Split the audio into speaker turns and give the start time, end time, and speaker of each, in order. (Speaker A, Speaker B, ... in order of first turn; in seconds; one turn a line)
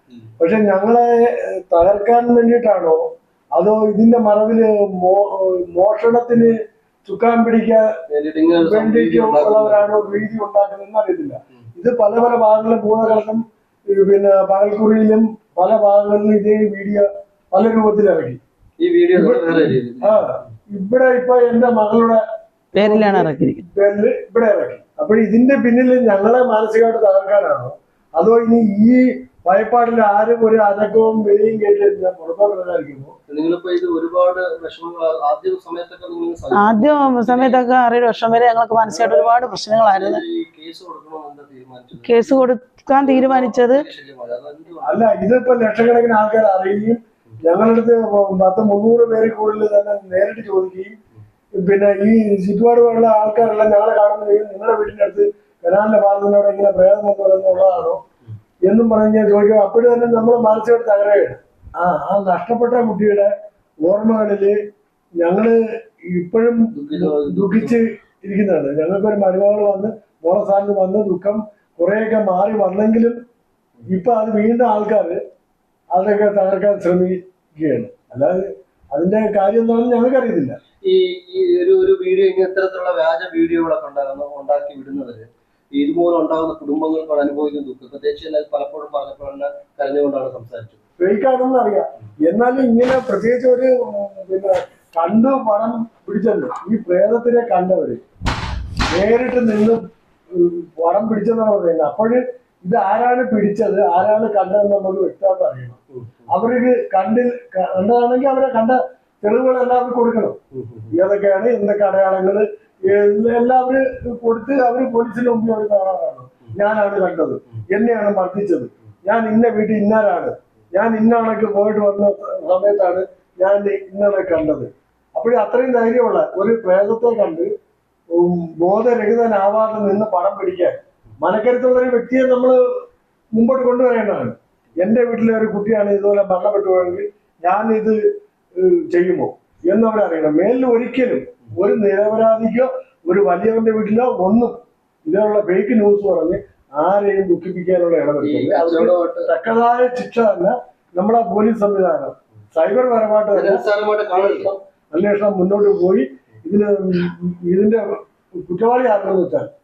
Speaker A: 0.4-3.0
Speaker A: 3.5-6.5
Speaker A: 7.0-7.9
Speaker B: 8.1-10.2
Speaker A: 8.6-18.4
Speaker B: 18.8-20.4
Speaker A: 19.1-22.2
Speaker C: 22.7-23.6
Speaker A: 22.8-33.1
Speaker B: 33.3-37.6
Speaker C: 36.6-40.2
Speaker A: 38.9-39.3
Speaker B: 39.8-45.1
Speaker C: 42.0-43.8
Speaker A: 44.8-50.9
Speaker A: 51.5-58.0
Speaker A: 58.6-63.3
Speaker A: 63.8-64.6
Speaker A: 65.2-73.2
Speaker B: 66.8-67.8
Speaker A: 73.9-75.2
Speaker A: 75.9-80.6
Speaker B: 80.8-90.8
Speaker A: 91.0-98.0
Speaker A: 98.9-99.8
Speaker A: 100.3-105.8
Speaker A: 106.3-110.4
Speaker B: 110.5-110.9
Speaker A: 110.9-127.5
Speaker A: 128.1-132.6
Speaker A: 133.3-138.0
Speaker A: 138.6-159.5
Speaker B: 148.2-149.3
Speaker B: 153.3-154.5